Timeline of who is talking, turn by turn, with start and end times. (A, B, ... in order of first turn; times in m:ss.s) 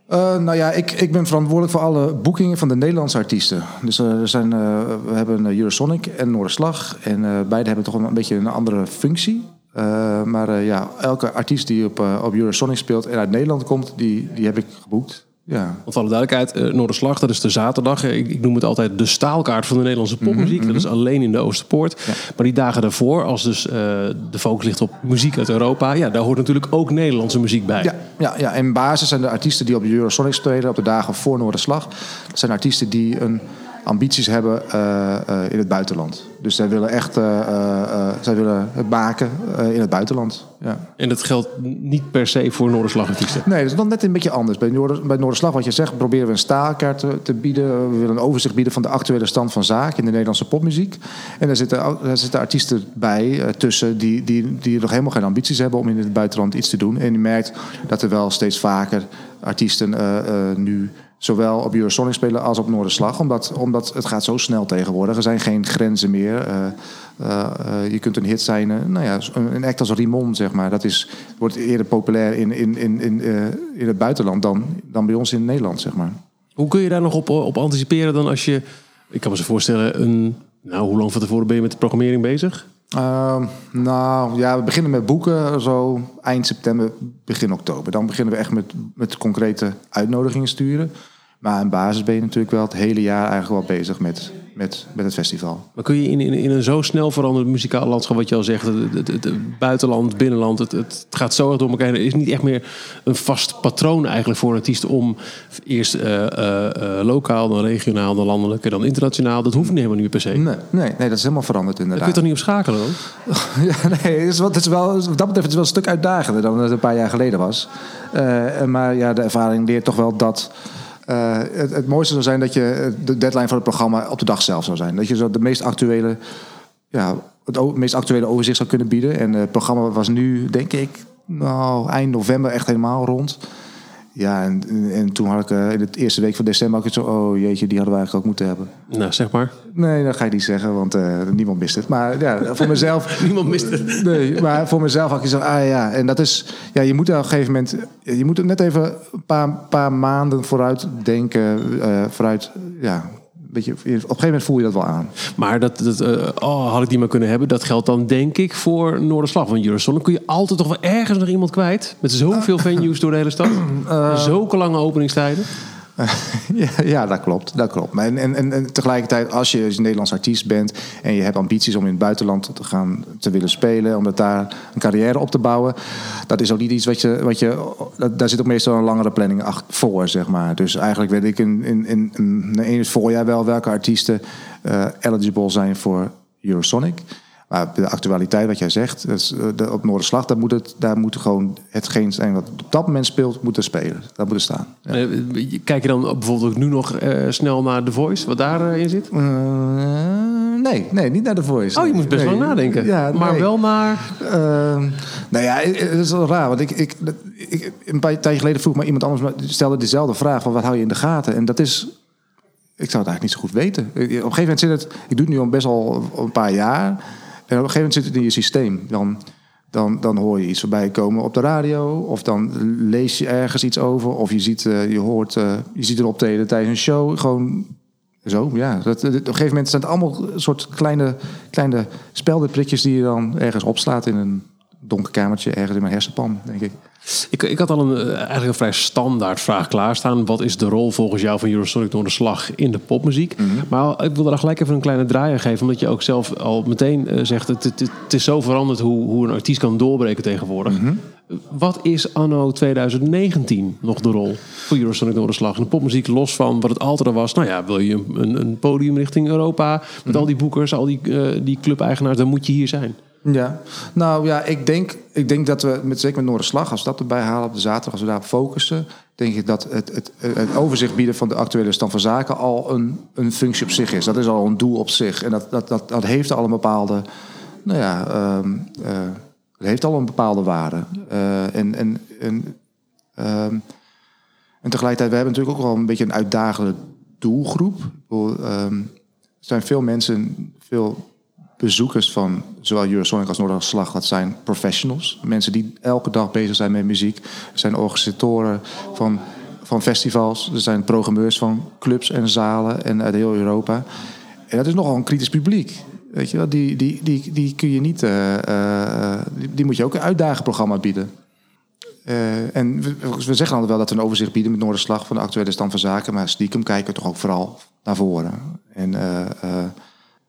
0:00.1-0:15.8 A
0:15.8-0:27.9 B
0:20.2-0:20.9 A
0:27.8-0:40.8 A
0:41.0-0:43.4 B
0:43.4-1:16.2 A
1:16.6-1:22.6 B
1:22.9-1:35.6 A
1:35.8-1:50.4 B
1:50.3-1:52.2 A
1:51.9-1:53.0 B
1:53.3-2:00.5 A
2:01.1-2:06.2 A
2:06.9-2:13.4 A
2:14.1-2:18.7 A
2:18.9-2:19.6 B
2:19.7-2:35.1 A
2:22.6-2:24.4 B
2:35.4-2:45.5 B
2:43.5-2:44.4 A
2:46.0-3:15.0 A
3:14.9-3:19.1 B
3:19.1-3:31.9 A
3:21.8-3:24.1 B
3:32.8-3:39.2 A
3:39.7-3:47.7 A
3:48.2-3:56.7 A
3:57.1-4:23.0 B
4:03.4-4:03.7 A
4:10.6-4:11.0 A
4:23.2-4:37.0 A
4:37.6-4:42.6 A
4:43.2-4:43.6 A
4:44.6-4:48.9 A
4:49.4-4:51.0 A
4:51.6-5:03.8 A
5:04.5-5:11.1 A
5:12.0-5:19.7 A